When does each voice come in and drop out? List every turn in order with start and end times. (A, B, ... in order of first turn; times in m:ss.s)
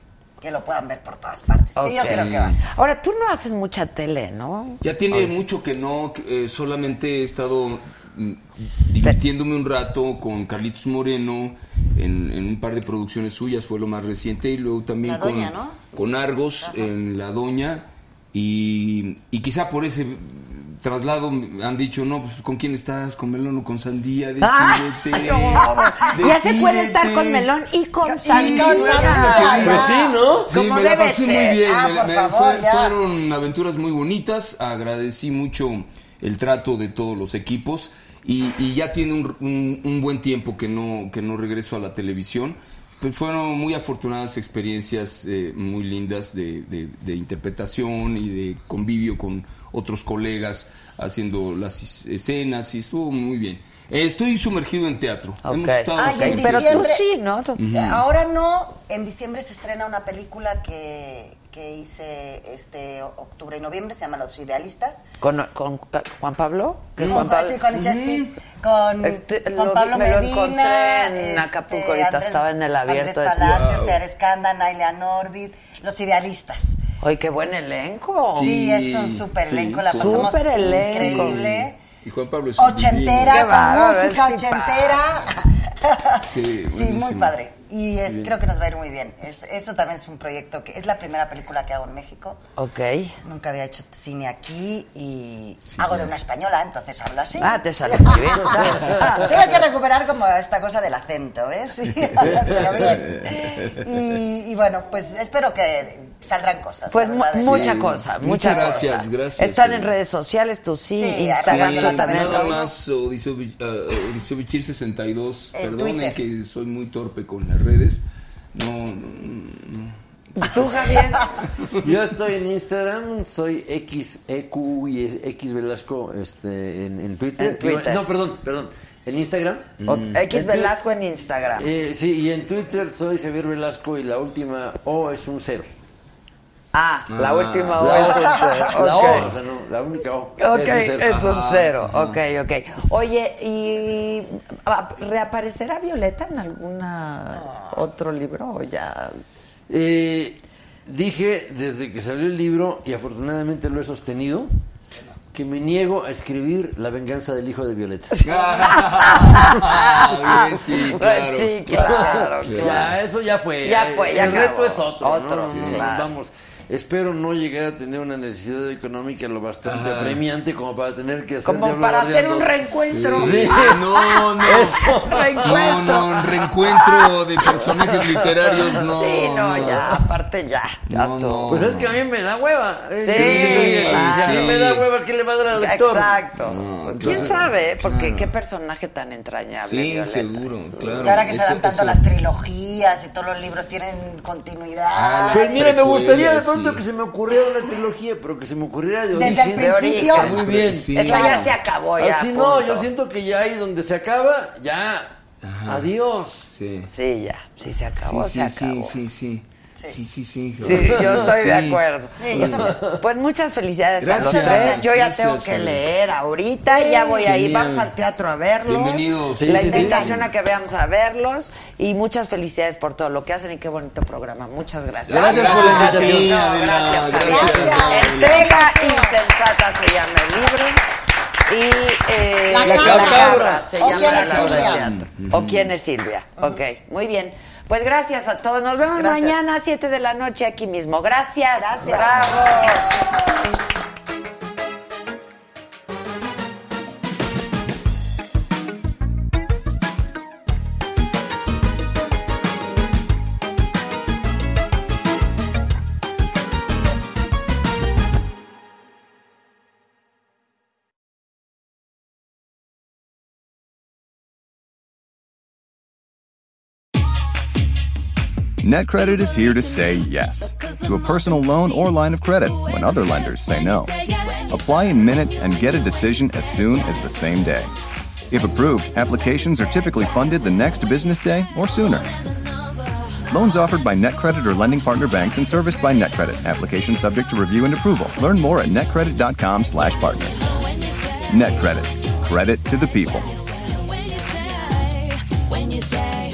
0:00.4-0:02.7 A
0:01.8-0:05.4 B
0:02.0-0:02.5 C
0:04.8-0:27.5 C
0:15.0-0:16.9 A
0:24.4-0:29.9 B
0:28.0-0:30.2 A
0:28.2-0:56.9 C
0:29.7-0:30.5 D
0:30.5-0:31.6 B
0:31.2-0:33.0 A
0:55.4-0:57.9 B
0:55.9-0:57.1 A
0:57.6-0:58.0 C
0:57.7-1:05.0 A
1:05.2-1:07.6 B
1:07.0-1:16.8 A
1:07.0-1:08.3 C
1:09.0-1:13.5 B
1:13.4-1:14.0 C
1:17.0-1:18.6 B
1:18.3-1:23.4 C
1:18.4-1:21.8 A
1:20.0-1:21.4 B
1:22.6-1:32.4 A
1:23.3-1:25.0 B
1:26.2-1:27.4 C
1:28.0-1:28.4 C
1:32.6-1:33.2 B
1:33.2-1:49.0 A
1:35.6-1:36.1 C
1:37.4-1:39.3 B
1:42.0-1:43.8 C
1:46.9-1:52.6 B
1:47.4-1:49.9 C
1:50.9-1:52.7 A
1:51.4-2:00.0 C
1:55.5-1:56.2 A
2:00.4-2:01.3 B
2:00.6-2:01.3 A
2:01.6-2:01.8 C
2:01.8-2:10.7 D
2:07.4-2:08.0 B
2:09.8-2:10.2 C
2:09.9-2:11.7 B
2:11.5-2:15.7 D
2:16.7-2:19.3 B
2:17.1-2:18.0 C
2:17.8-2:21.3 D
2:18.1-2:19.0 A
2:19.0-2:19.3 C
2:20.4-2:29.2 B
2:21.0-2:22.2 C
2:27.3-2:27.9 A
2:29.7-2:34.5 D
2:35.3-2:38.7 D
2:38.2-2:43.0 C
2:38.6-2:43.0 B
2:41.7-2:52.6 D
2:43.6-2:46.1 B
2:45.5-2:45.9 C
2:49.6-2:50.2 C
2:51.4-2:57.6 B
2:52.9-2:59.9 C
2:53.1-2:53.9 D
2:54.4-2:56.0 D
2:57.6-2:58.8 D
2:58.5-3:01.7 B
2:59.4-3:00.0 D
3:00.9-3:02.0 C
3:01.5-3:06.3 D
3:03.0-3:04.6 B
3:03.1-3:04.9 C
3:05.5-3:10.5 B
3:06.4-3:08.3 C
3:07.0-3:07.3 D
3:09.6-3:12.0 C
3:11.0-3:15.6 A
3:14.9-3:16.8 C
3:15.3-3:21.0 D
3:19.1-3:21.5 A
3:19.6-3:22.9 B
3:20.2-3:21.5 C
3:22.0-3:25.2 D
3:25.4-3:25.9 C
3:25.7-3:26.5 D
3:26.5-3:26.9 C
3:26.8-3:28.9 B
3:28.0-3:32.6 C
3:30.6-3:50.8 B
3:30.7-3:31.3 D
3:32.2-3:32.7 A
3:32.7-3:33.0 D
3:34.0-3:35.8 C
3:34.2-3:34.9 A
3:34.2-3:34.6 D
3:36.6-3:37.3 A
3:37.1-3:37.9 C
3:38.6-3:40.2 C
3:39.4-3:40.0 D
3:39.6-3:40.2 A
3:45.1-3:48.5 C
3:45.1-3:49.2 A
3:45.1-3:46.3 D
3:47.2-3:47.6 D
3:51.5-4:02.8 B
3:52.4-3:55.0 A
3:52.6-3:53.3 C
3:52.7-3:53.8 D
3:53.9-3:55.7 C
3:59.0-3:59.4 A
4:01.6-4:03.1 A
4:28.6-4:33.9 E
4:34.5-4:37.7 E
4:38.3-4:42.2 E
4:43.3-4:50.7 E
4:51.3-4:53.3 E